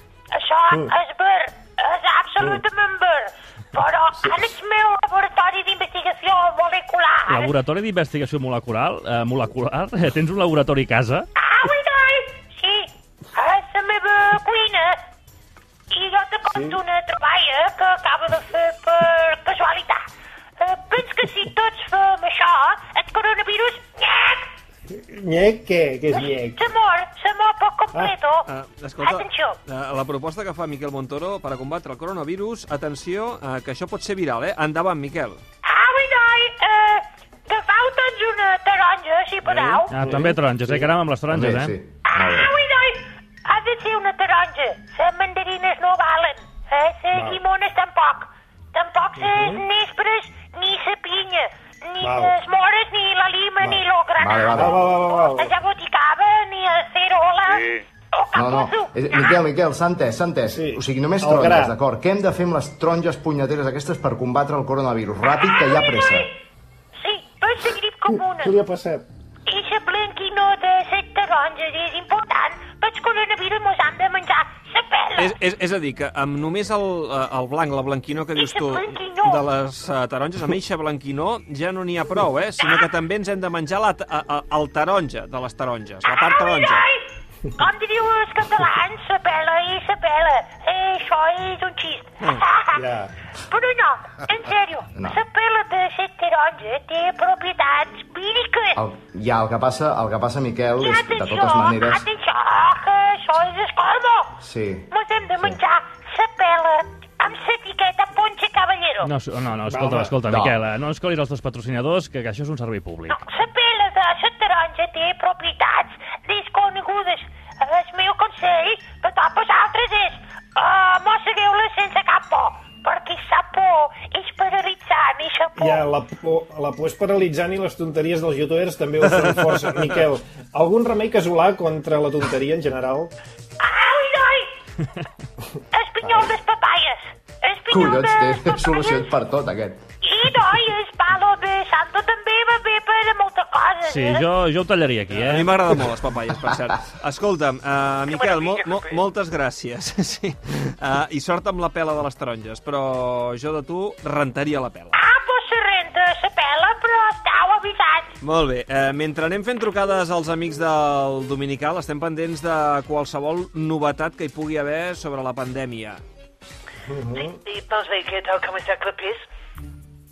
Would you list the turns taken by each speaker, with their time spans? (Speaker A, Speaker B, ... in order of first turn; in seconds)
Speaker A: 0.3-7.5, 11.3-15.0, 15.9-20.0, 20.6-24.4, 26.1-28.5, 29.0-29.6, 35.6-39.9, 42.1-59.4, 65.4-66.3, 67.0-68.6, 69.5-75.3, 78.3-79.4, 86.0-92.9, 93.5-98.8, 100.8-104.4, 104.9-109.1, 113.1-125.9, 133.6-134.5, 135.7-139.1, 140.0-144.3, 154.9-158.2
Speaker B: 7.3-11.3, 39.9-41.7, 109.0-113.2, 143.9-145.6
Speaker C: 16.5-16.8, 24.9-26.6, 40.0-40.9, 47.1-47.4, 49.2-49.6, 52.0-52.3, 54.5-55.5, 60.5-61.7, 68.1-69.0, 92.7-93.1, 109.7-110.2, 125.6-133.1, 136.0-136.3, 166.9-167.4
Speaker D: 28.5-35.4, 39.5-39.8, 75.2-86.8, 145.2-154.9, 158.2-166.0
Speaker E: 41.3-42.5, 54.2-54.8, 58.3-66.3, 98.8-102.0, 104.4-104.9, 110.3-110.6, 137.7-139.8
Speaker F: 148.1-149.0, 167.1-169.2